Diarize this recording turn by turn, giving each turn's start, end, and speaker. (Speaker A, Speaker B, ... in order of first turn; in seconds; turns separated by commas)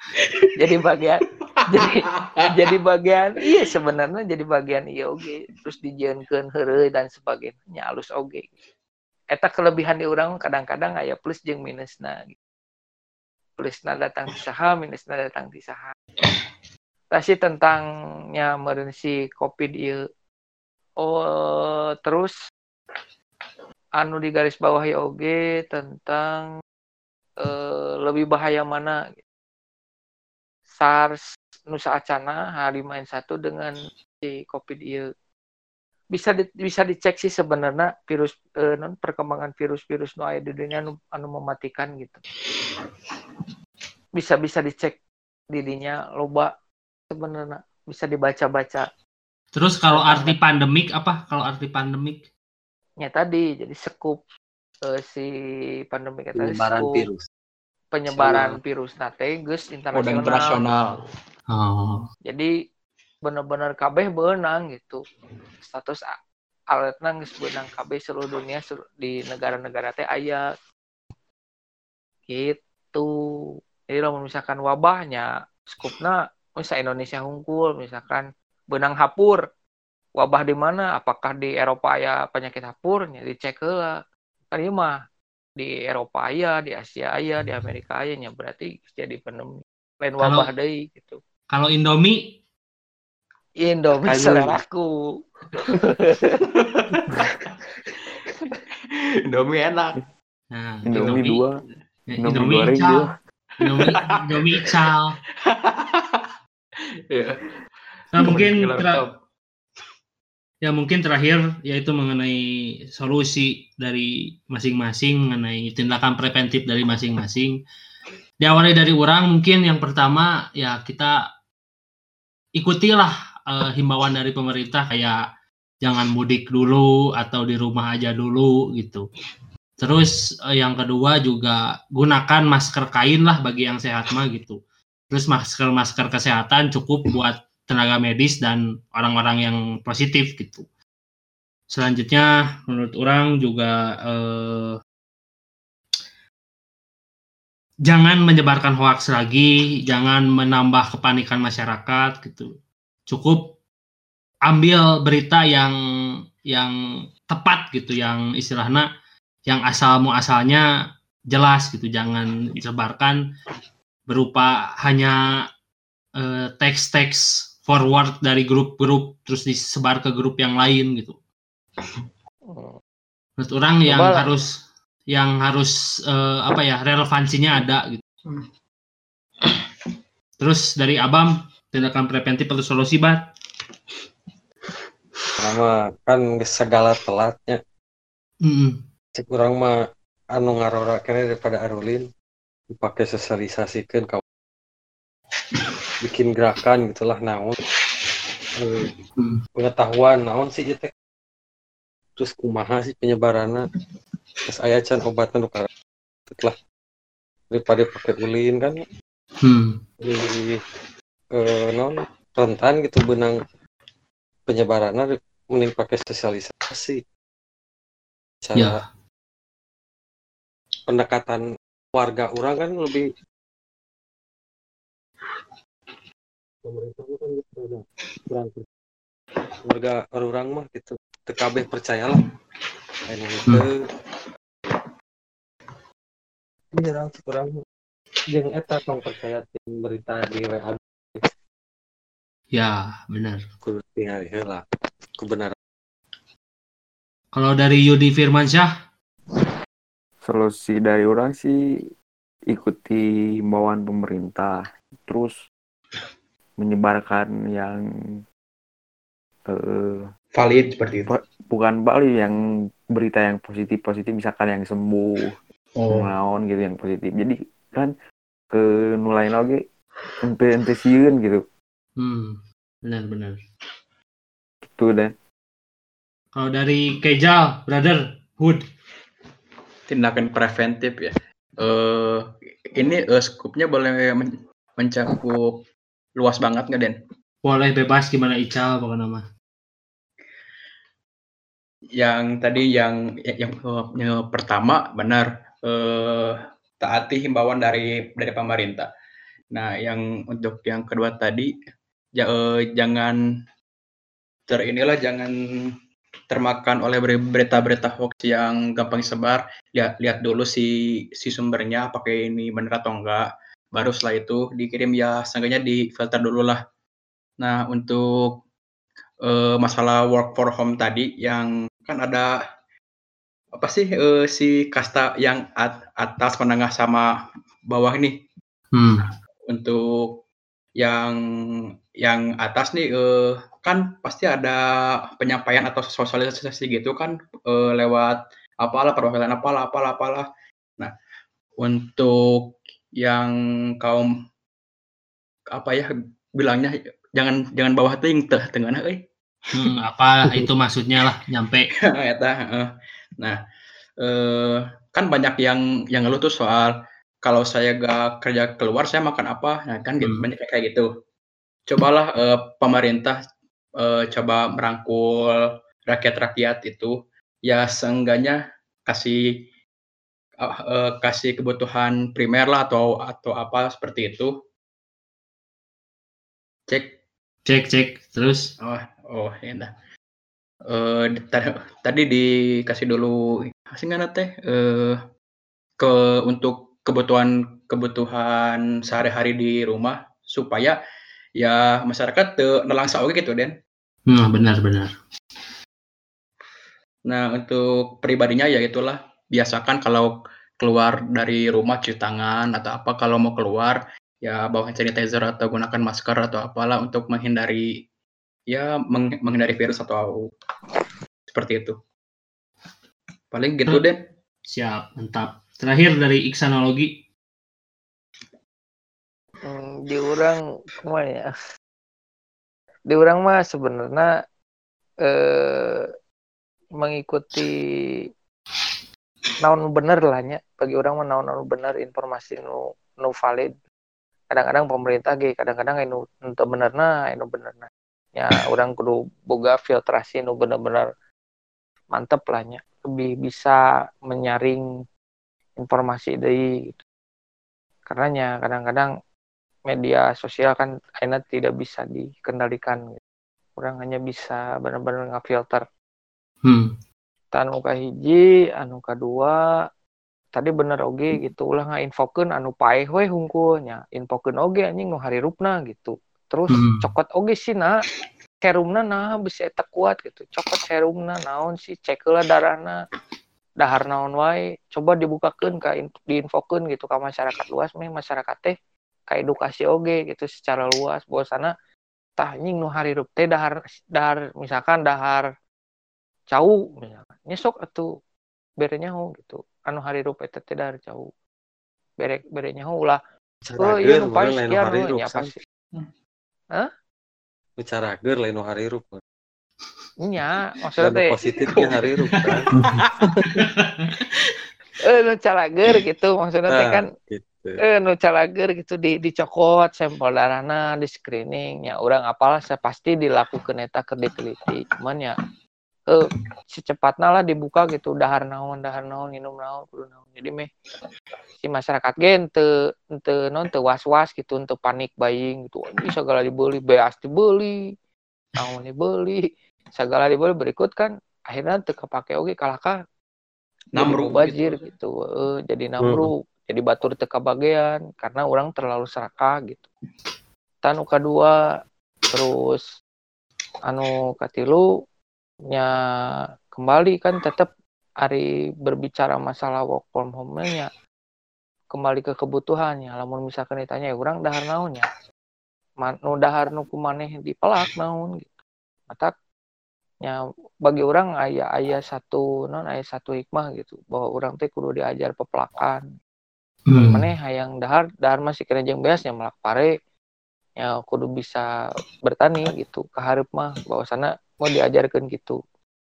Speaker A: 0.2-0.5, Speaker B: 0.6-8.5, Speaker A: 1.6-2.5, Speaker B: 9.3-12.4, Speaker B: 13.6-15.9, Speaker B: 17.1-20.0, Speaker B: 21.0-22.3, Speaker B: 24.0-26.5, Speaker B: 27.4-29.1, Speaker B: 30.8-35.1, Speaker B: 36.1-42.2, Speaker B: 44.2-45.0, Speaker B: 45.5-46.5, Speaker B: 47.1-48.9, Speaker C: 49.6-52.2, Speaker B: 49.9-50.4, Speaker B: 53.0-54.2, Speaker B: 54.9-55.3, Speaker B: 55.9-57.1, Speaker D: 56.4-57.2, Speaker B: 57.9-60.6, Speaker D: 58.1-58.6, Speaker A: 59.9-61.0, Speaker C: 61.5-62.0, Speaker B: 62.3-62.5, Speaker B: 63.2-65.0, Speaker B: 65.6-66.1, Speaker B: 66.7-70.5, Speaker B: 72.3-73.1, Speaker B: 73.9-79.4, Speaker B: 80.2-84.0, Speaker B: 84.5-85.0, Speaker B: 85.6-91.2, Speaker C: 90.2-90.5, Speaker C: 91.5-92.3, Speaker B: 93.6-95.0, Speaker D: 94.1-94.6, Speaker B: 95.5-96.4, Speaker A: 96.5-97.6, Speaker A: 99.3-100.0, Speaker C: 100.5-101.4, Speaker E: 100.9-101.6, Speaker C: 102.1-103.1, Speaker E: 102.2-103.1, Speaker C: 103.6-105.1, Speaker A: 103.7-104.8, Speaker A: 105.4-106.3, Speaker A: 107.1-107.6, Speaker C: 108.1-109.0, Speaker A: 108.1-109.2, Speaker C: 110.6-112.4, Speaker C: 112.9-117.6, Speaker C: 118.4-121.1, Speaker C: 122.6-125.2, Speaker C: 125.8-129.1, Speaker C: 129.8-134.6, Speaker C: 135.1-140.7, Speaker C: 141.7-144.8, Speaker C: 147.9-152.5, Speaker C: 153.1-153.5, Speaker C: 154.5-155.7, Speaker C: 157.3-158.9, Speaker C: 159.5-160.7, Speaker C: 161.3-163.2, Speaker C: 164.1-165.2, Speaker C: 166.2-171.2, Speaker B: 172.5-172.8, Speaker C: 173.4-174.5, Speaker B: 173.9-174.4, Speaker C: 175.1-178.0, Speaker C: 180.4-183.2, Speaker D: 185.4-187.6, Speaker C: 188.4-188.8, Speaker D: 189.2-189.7, Speaker D: 190.3-192.1, Speaker D: 192.7-194.2, Speaker D: 196.0-197.6, Speaker D: 198.6-198.9, Speaker D: 199.6-200.9, Speaker D: 202.2-203.7, Speaker D: 204.5-205.7, Speaker D: 206.3-206.6, Speaker D: 207.5-208.8, Speaker C: 209.4-209.8, Speaker D: 210.0-210.6, Speaker D: 211.3-213.4, Speaker D: 214.5-217.0, Speaker D: 218.4-218.8, Speaker D: 220.9-221.4, Speaker D: 221.9-223.1, Speaker D: 226.7-228.7, Speaker D: 229.6-232.2, Speaker D: 233.1-233.8, Speaker D: 236.7-237.6, Speaker D: 238.3-241.3, Speaker C: 242.5-243.4, Speaker D: 243.6-244.6, Speaker D: 245.2-245.6, Speaker C: 247.3-248.7, Speaker E: 250.2-251.6, Speaker E: 252.5-255.3, Speaker E: 256.6-257.8, Speaker E: 259.5-260.1, Speaker A: 260.3-261.1, Speaker E: 261.1-262.4, Speaker E: 262.9-265.3, Speaker A: 265.8-266.1, Speaker E: 265.9-267.9, Speaker E: 268.5-269.6, Speaker E: 270.2-271.4, Speaker C: 272.0-273.4, Speaker E: 274.7-275.1, Speaker C: 276.4-278.6, Speaker A: 279.9-285.6, Speaker A: 286.2-287.0, Speaker C: 287.4-289.2, Speaker A: 292.0-298.9, Speaker A: 299.5-301.5, Speaker A: 302.1-303.2, Speaker A: 304.5-305.7, Speaker A: 306.3-316.6, Speaker A: 317.4-318.4, Speaker A: 319.2-322.4, Speaker A: 323.6-327.1, Speaker A: 327.7-328.1, Speaker C: 328.7-329.1, Speaker A: 329.5-330.2, Speaker A: 330.8-331.2, Speaker A: 332.0-334.6, Speaker A: 335.2-340.3, Speaker A: 341.6-344.1, Speaker A: 345.5-349.0, Speaker C: 349.5-351.7, Speaker A: 351.9-353.4, Speaker A: 354.0-360.9, Speaker C: 360.0-360.3, Speaker A: 361.7-363.2, Speaker A: 363.8-369.4, Speaker A: 370.4-374.4, Speaker A: 376.7-377.0, Speaker C: 377.5-378.5, Speaker A: 378.6-379.7, Speaker A: 380.7-385.0, Speaker A: 385.8-390.8, Speaker A: 391.4-393.5, Speaker C: 394.1-394.9, Speaker A: 397.1-407.8, Speaker A: 408.5-410.3, Speaker A: 411.3-411.8, Speaker A: 413.3-414.0, Speaker C: 414.5-416.9, Speaker B: 419.4-421.3, Speaker B: 422.9-424.1, Speaker B: 425.0-425.9, Speaker B: 426.8-427.5, Speaker B: 429.4-433.5, Speaker B: 434.3-440.9, Speaker B: 441.9-444.6, Speaker B: 445.6-446.8, Speaker B: 447.9-448.9, Speaker B: 449.7-453.0, Speaker B: 453.6-455.6, Speaker C: 456.4-456.7, Speaker B: 457.3-459.4, Speaker B: 460.3-467.8, Speaker C: 466.5-466.8, Speaker B: 468.4-472.8, Speaker B: 473.6-478.6, Speaker B: 479.1-481.5, Speaker B: 482.2-485.3, Speaker B: 486.3-487.9, Speaker B: 488.6-491.1, Speaker B: 492.0-495.4, Speaker D: 493.5-495.3, Speaker D: 497.6-499.0, Speaker B: 500.0-501.1, Speaker D: 500.8-502.5, Speaker A: 501.5-502.5, Speaker D: 503.1-503.5, Speaker C: 503.4-503.9, Speaker B: 504.8-506.9, Speaker D: 506.5-507.6, Speaker B: 507.6-515.2, Speaker B: 515.9-520.5, Speaker B: 521.4-527.6, Speaker B: 528.4-532.8, Speaker A: 533.7-534.6, Speaker B: 533.8-539.7, Speaker D: 535.8-536.1, Speaker B: 540.6-541.4, Speaker B: 542.1-542.6, Speaker B: 543.7-544.6, Speaker B: 546.5-547.5, Speaker B: 548.0-550.7, Speaker B: 551.7-554.9, Speaker B: 555.8-558.3, Speaker B: 560.0-565.9, Speaker C: 566.7-567.0, Speaker B: 566.7-569.7, Speaker B: 570.6-571.5, Speaker B: 572.0-575.4